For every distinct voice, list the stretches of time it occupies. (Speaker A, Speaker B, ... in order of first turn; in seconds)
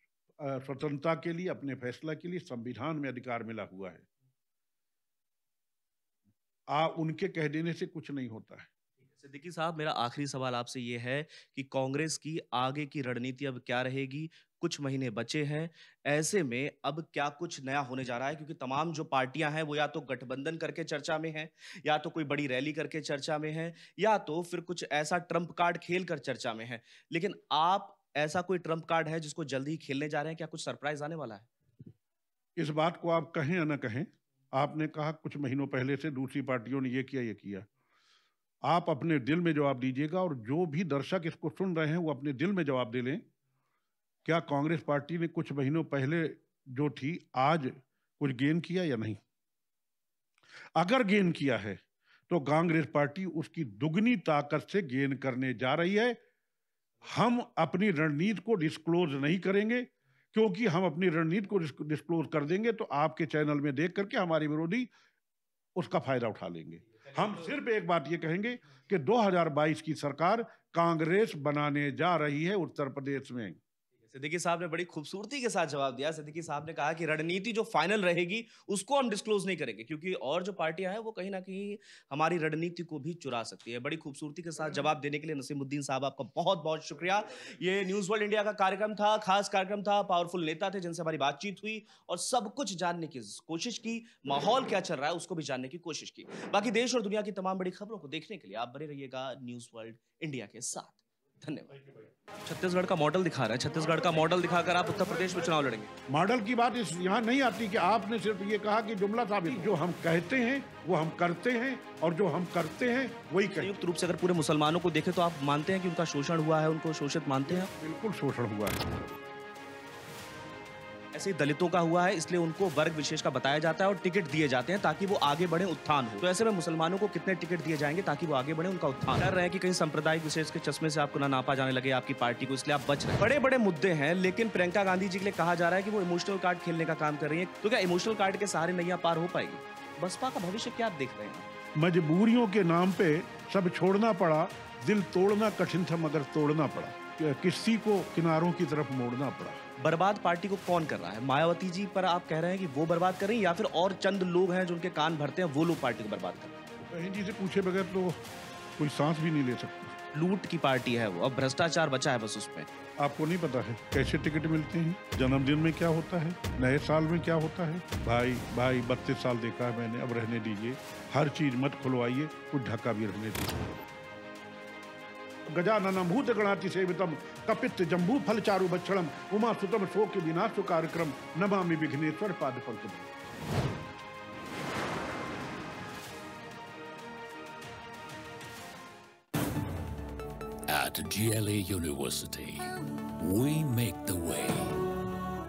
Speaker A: 0.4-4.0, 6.7-8.7, 32.6-37.7, 38.6-43.3, 44.2-49.2, 50.8-56.2, 57.0-64.9, 65.8-73.6, 101.8-102.1, 106.1-113.8, 117.5-118.8, 141.8-149.6, 156.8-158.2, 158.8-160.0, 163.0-173.8, 175.5-183.1
Speaker B: 9.2-31.5, 74.1-101.8, 102.4-105.9, 113.6-117.7, 121.1-141.5, 149.8-156.6, 160.1-162.7
Speaker C: 190.7-194.8